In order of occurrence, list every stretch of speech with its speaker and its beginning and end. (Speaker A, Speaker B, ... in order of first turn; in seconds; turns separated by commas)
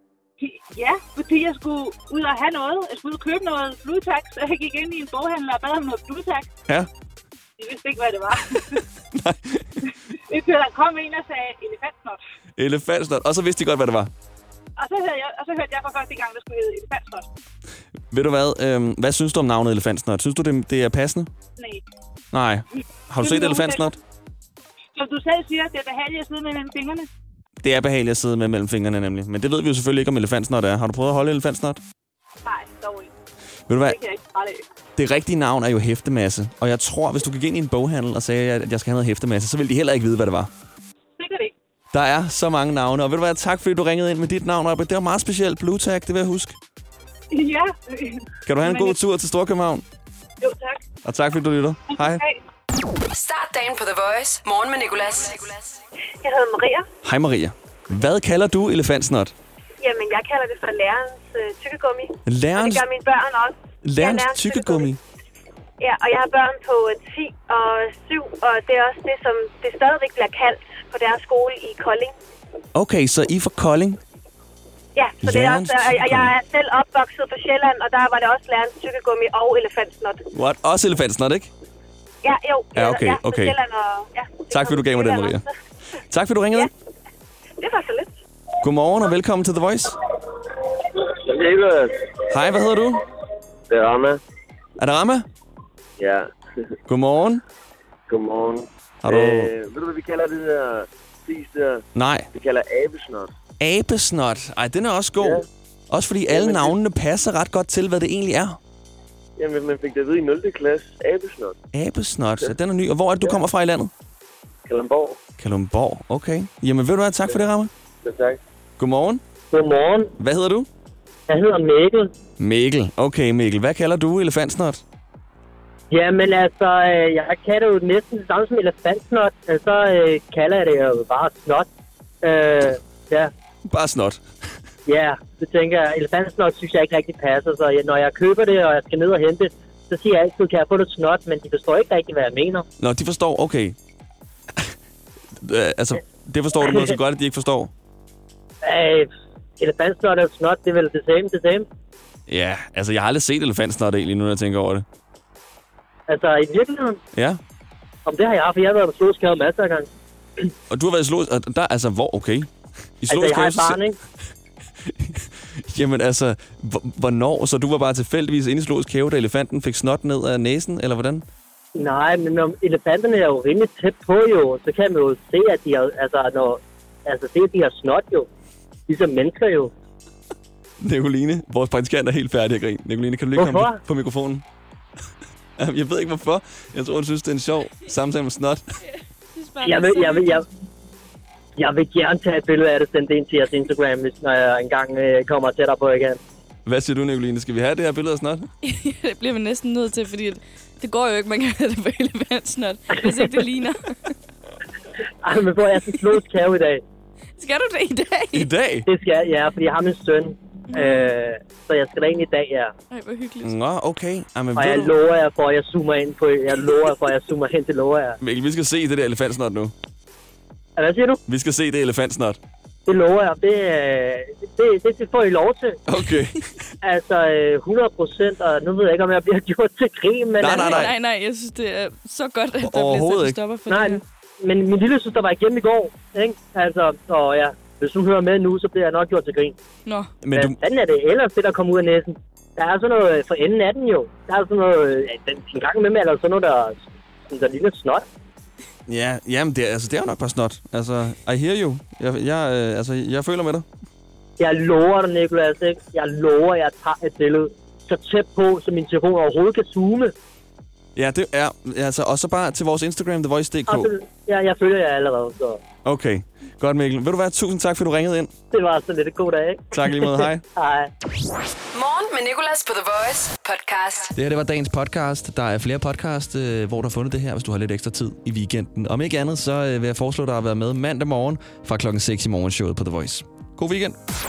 Speaker A: 0.4-6.5, Speaker A: 7.6-8.8, Speaker B: 9.1-9.8, Speaker A: 10.3-12.2, Speaker B: 12.6-14.1, Speaker A: 14.8-17.3, Speaker B: 18.1-21.3, Speaker A: 21.6-21.8, Speaker B: 22.3-24.0, Speaker A: 23.2-23.9, Speaker A: 24.9-27.1, Speaker B: 27.6-31.8, Speaker A: 32.5-33.1, Speaker B: 33.7-34.0, Speaker A: 33.9-34.6, Speaker B: 35.0-40.5, Speaker A: 41.2-41.5, Speaker B: 41.9-46.6, Speaker A: 47.3-49.0, Speaker B: 48.5-49.9, Speaker A: 50.4-50.8, Speaker B: 51.0-52.2, Speaker A: 52.0-52.3, Speaker C: 53.1-55.8, Speaker D: 56.2-56.9, Speaker B: 57.0-59.3, Speaker D: 59.8-64.9, Speaker B: 62.3-62.9, Speaker B: 63.8-65.0, Speaker D: 65.8-72.1, Speaker B: 72.7-74.0, Speaker D: 75.0-80.2, Speaker B: 75.2-76.3, Speaker B: 80.3-81.5, Speaker D: 82.2-85.5, Speaker B: 82.7-83.6, Speaker B: 84.5-85.5, Speaker B: 86.1-86.7, Speaker D: 87.6-88.2, Speaker B: 88.6-90.0, Speaker E: 91.2-91.9, Speaker B: 92.3-93.0, Speaker E: 93.7-94.2, Speaker B: 94.8-95.3, Speaker E: 96.0-96.3, Speaker B: 96.9-97.4, Speaker E: 98.1-103.3, Speaker B: 99.0-99.5, Speaker B: 101.9-102.3, Speaker B: 103.6-108.6, Speaker E: 106.3-106.7, Speaker E: 109.4-111.6, Speaker B: 111.7-113.9, Speaker E: 114.7-115.2, Speaker B: 115.4-117.7, Speaker E: 118.0-118.4, Speaker B: 118.8-119.2, Speaker F: 119.5-120.1, Speaker B: 120.2-120.7, Speaker F: 121.3-122.1, Speaker B: 122.4-124.8, Speaker F: 125.9-131.7, Speaker F: 132.2-133.3, Speaker B: 133.7-134.2, Speaker F: 134.9-142.7, Speaker B: 142.8-143.8, Speaker B: 145.4-147.7, Speaker F: 146.6-146.9, Speaker F: 148.6-151.7, Speaker B: 152.3-154.8, Speaker F: 156.1-157.0, Speaker B: 157.1-157.4, Speaker F: 158.1-159.9, Speaker B: 160.7-163.8, Speaker F: 163.1-164.0, Speaker B: 164.8-171.2, Speaker F: 171.8-178.3, Speaker F: 178.9-179.7, Speaker B: 180.8-184.4, Speaker F: 183.4-183.8, Speaker B: 185.6-188.6, Speaker G: 188.8-190.4, Speaker F: 189.6-190.4, Speaker F: 191.6-196.2, Speaker B: 196.7-198.5, Speaker G: 198.6-203.8, Speaker F: 205.2-206.8, Speaker G: 207.4-208.5, Speaker B: 208.3-208.9, Speaker F: 208.9-212.7, Speaker G: 210.7-211.1, Speaker G: 212.9-213.6, Speaker B: 213.4-214.9, Speaker F: 214.6-218.2, Speaker B: 218.2-219.7, Speaker F: 220.8-221.2, Speaker B: 221.3-222.4, Speaker F: 222.9-225.8, Speaker B: 225.9-226.5, Speaker F: 226.8-230.9, Speaker B: 230.4-230.9, Speaker G: 230.4-234.0, Speaker B: 232.6-233.4, Speaker F: 233.7-239.6, Speaker G: 239.9-240.1, Speaker B: 240.2-240.6, Speaker F: 240.3-248.1, Speaker B: 248.9-253.7, Speaker F: 254.4-260.1, Speaker B: 261.0-263.9, Speaker F: 263.7-265.6, Speaker B: 265.9-268.3, Speaker F: 268.5-270.9, Speaker B: 269.7-270.4, Speaker C: 271.7-274.1, Speaker B: 274.1-284.0